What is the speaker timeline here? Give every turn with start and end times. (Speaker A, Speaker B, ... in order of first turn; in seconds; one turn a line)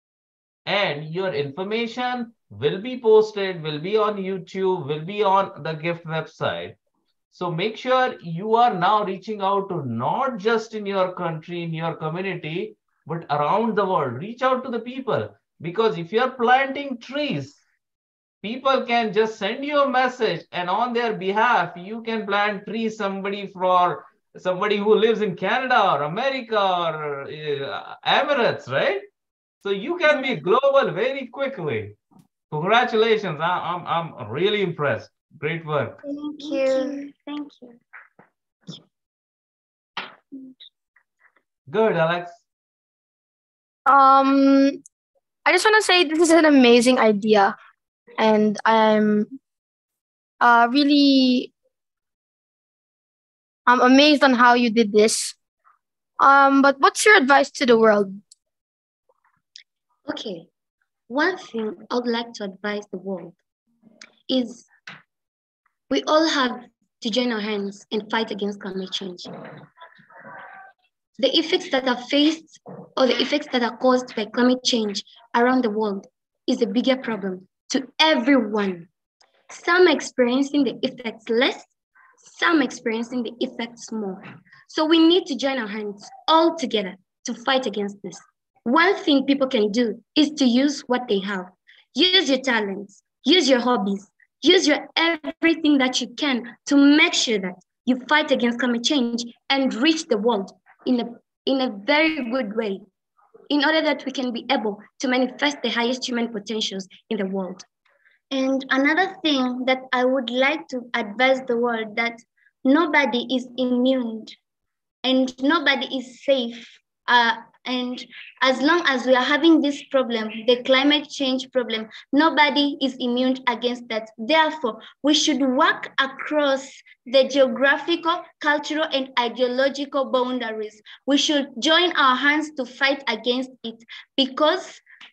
Speaker A: 0.7-6.8
Speaker A: 7.3-17.6
Speaker A: 18.4-29.0
Speaker A: 29.6-32.0
Speaker A: 32.5-36.0
Speaker B: 36.0-37.8
Speaker A: 41.7-42.4
Speaker C: 43.9-44.8
Speaker C: 45.4-47.5
Speaker C: 48.2-49.3
Speaker C: 50.4-51.5
Speaker C: 53.6-55.3
Speaker C: 56.2-58.2
Speaker D: 60.1-60.5
Speaker D: 61.1-63.4
Speaker D: 64.3-64.7
Speaker D: 65.9-69.3
Speaker D: 71.2-78.9
Speaker D: 79.5-102.8
Speaker D: 103.5-107.7
Speaker B: 108.3-114.3
Speaker B: 115.0-134.8